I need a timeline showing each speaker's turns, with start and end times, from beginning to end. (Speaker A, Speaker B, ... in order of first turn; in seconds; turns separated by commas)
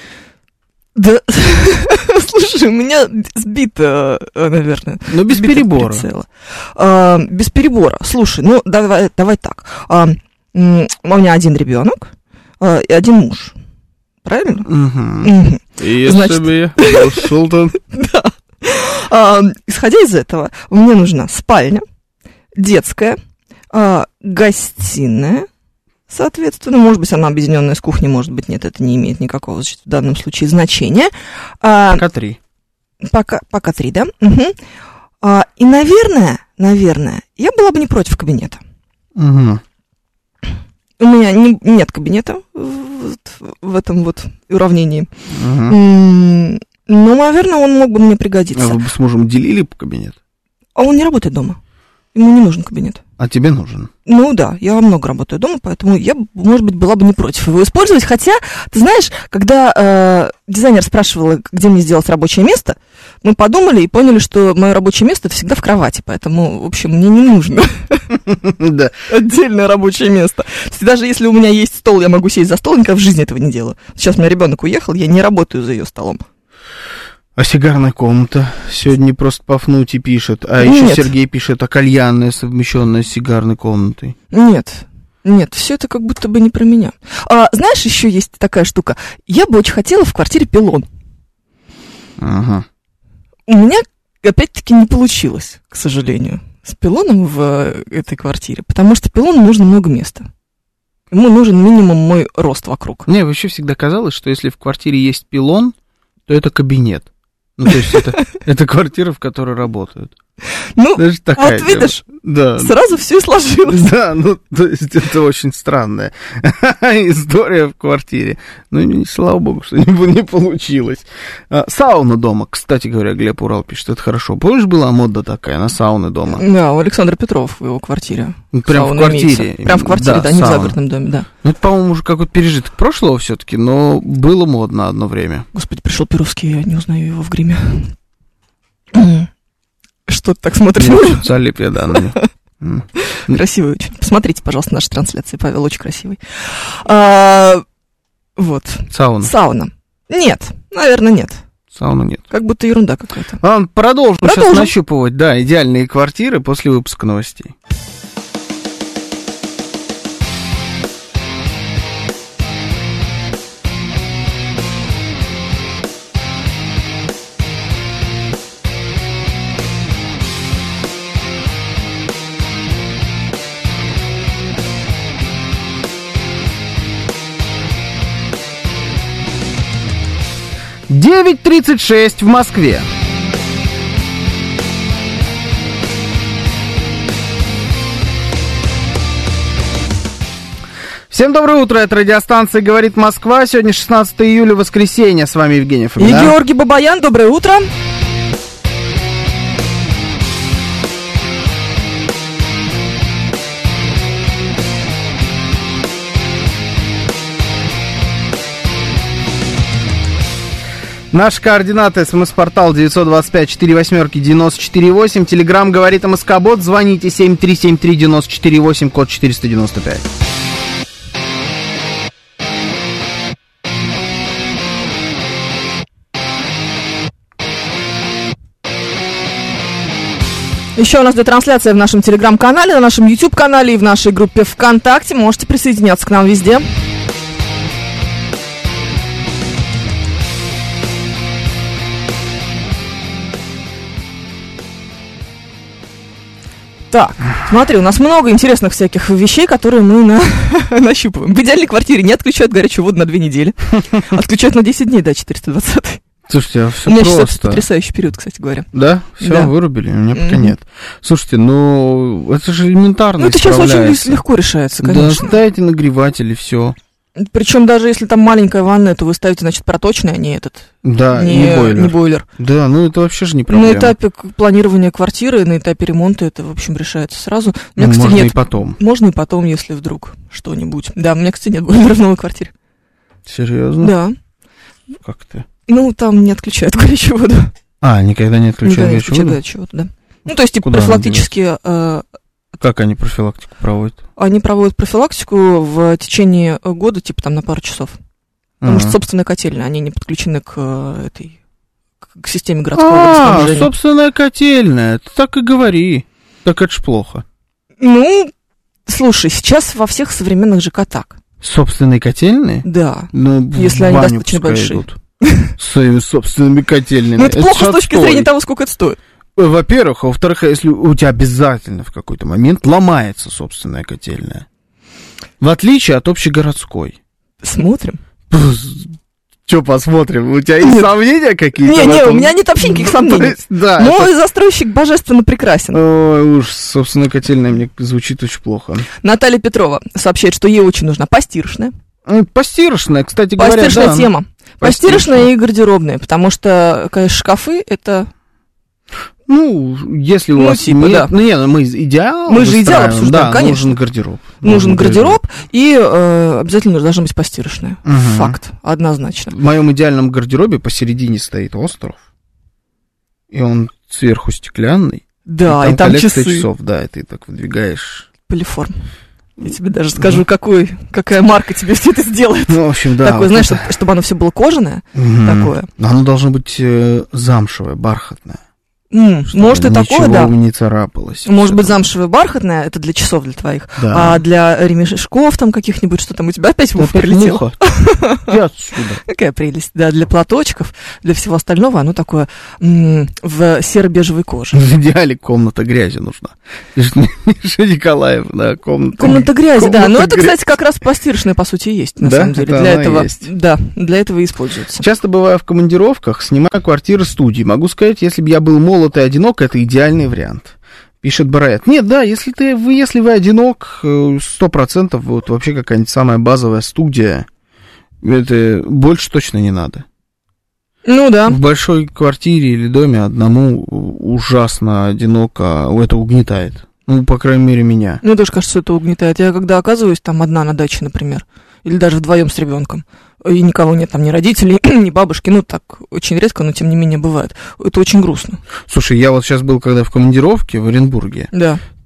Speaker A: 0.9-13.6, Speaker B: 5.1-6.1, Speaker A: 14.2-14.7, Speaker B: 14.7-17.8, Speaker A: 15.2-21.8, Speaker A: 22.5-23.2, Speaker A: 23.7-25.5, Speaker A: 26.1-32.0, Speaker B: 31.9-32.4, Speaker A: 33.0-34.5, Speaker A: 35.2-38.6, Speaker B: 39.1-39.6, Speaker A: 41.0-45.1, Speaker B: 45.3-45.8, Speaker A: 45.7-48.8, Speaker B: 48.5-50.1, Speaker A: 50.7-51.6, Speaker A: 52.1-53.0, Speaker B: 53.2-53.9, Speaker A: 54.0-68.0, Speaker B: 68.2-69.0, Speaker A: 69.1-76.2, Speaker B: 77.3-84.2, Speaker A: 80.6-81.1, Speaker A: 84.3-90.9, Speaker B: 92.2-92.7, Speaker A: 93.5-100.3, Speaker A: 101.1-103.1, Speaker B: 103.1-105.7, Speaker B: 106.3-110.1, Speaker A: 107.7-108.0, Speaker A: 110.7-112.0, Speaker B: 111.0-112.7, Speaker A: 112.6-113.8, Speaker B: 113.7-126.4, Speaker A: 126.3-131.3, Speaker B: 128.5-130.8, Speaker B: 131.4-135.5, Speaker A: 135.5-137.9, Speaker A: 138.9-139.3, Speaker A: 140.1-141.2, Speaker B: 140.8-143.4, Speaker A: 141.9-142.2, Speaker A: 143.0-147.6, Speaker A: 148.4-151.4, Speaker B: 148.9-149.3, Speaker B: 151.7-152.3, Speaker A: 152.3-153.4, Speaker B: 153.4-157.5, Speaker A: 154.2-154.7, Speaker B: 180.9-182.8, Speaker B: 191.1-196.3, Speaker A: 196.0-197.7, Speaker B: 211.1-220.1, Speaker A: 230.7-236.7, Speaker A: 246.9-256.0, Speaker B: 256.3-257.6, Speaker A: 256.9-258.7, Speaker B: 258.7-264.2, Speaker A: 259.2-259.5, Speaker A: 260.1-260.5, Speaker A: 263.2-265.4, Speaker B: 264.8-266.8, Speaker A: 267.2-272.2, Speaker B: 270.8-273.9, Speaker A: 273.5-282.5, Speaker B: 277.8-278.8, Speaker B: 283.2-283.9, Speaker A: 283.8-284.1, Speaker B: 285.0-285.5, Speaker A: 285.7-287.5, Speaker B: 287.8-289.4, Speaker A: 288.6-292.0, Speaker B: 290.6-291.3, Speaker B: 292.6-294.0, Speaker A: 294.2-298.0, Speaker B: 298.6-299.0, Speaker A: 298.6-301.4, Speaker A: 302.0-303.7, Speaker B: 302.7-307.2, Speaker A: 307.8-308.3, Speaker A: 308.9-311.1, Speaker B: 311.4-315.0, Speaker A: 312.6-315.5, Speaker B: 315.6-318.3, Speaker A: 317.1-319.0, Speaker B: 319.4-324.4, Speaker B: 325.4-326.9, Speaker A: 327.4-328.0, Speaker B: 328.3-328.9, Speaker B: 329.4-334.1, Speaker A: 331.6-335.8, Speaker B: 335.7-338.9, Speaker A: 339.0-341.7, Speaker B: 342.1-345.3, Speaker A: 343.4-348.1, Speaker B: 349.3-355.2, Speaker A: 350.3-351.1, Speaker A: 352.3-353.8, Speaker A: 354.4-359.3, Speaker B: 357.8-358.4, Speaker B: 359.3-362.0, Speaker B: 363.3-368.1, Speaker A: 365.2-366.5, Speaker A: 368.3-368.8, Speaker A: 369.4-375.7, Speaker B: 372.5-373.7, Speaker B: 374.9-378.4, Speaker A: 378.9-380.3, Speaker B: 379.3-381.8, Speaker A: 381.2-388.4, Speaker B: 383.8-384.2, Speaker B: 386.8-389.0, Speaker A: 389.0-394.6, Speaker B: 394.5-400.4, Speaker A: 399.0-404.8, Speaker B: 402.0-403.3, Speaker B: 404.8-417.2, Speaker B: 418.0-419.8, Speaker A: 420.8-421.4, Speaker B: 421.3-428.0, Speaker A: 428.0-438.4, Speaker B: 438.7-441.3, Speaker A: 441.3-441.6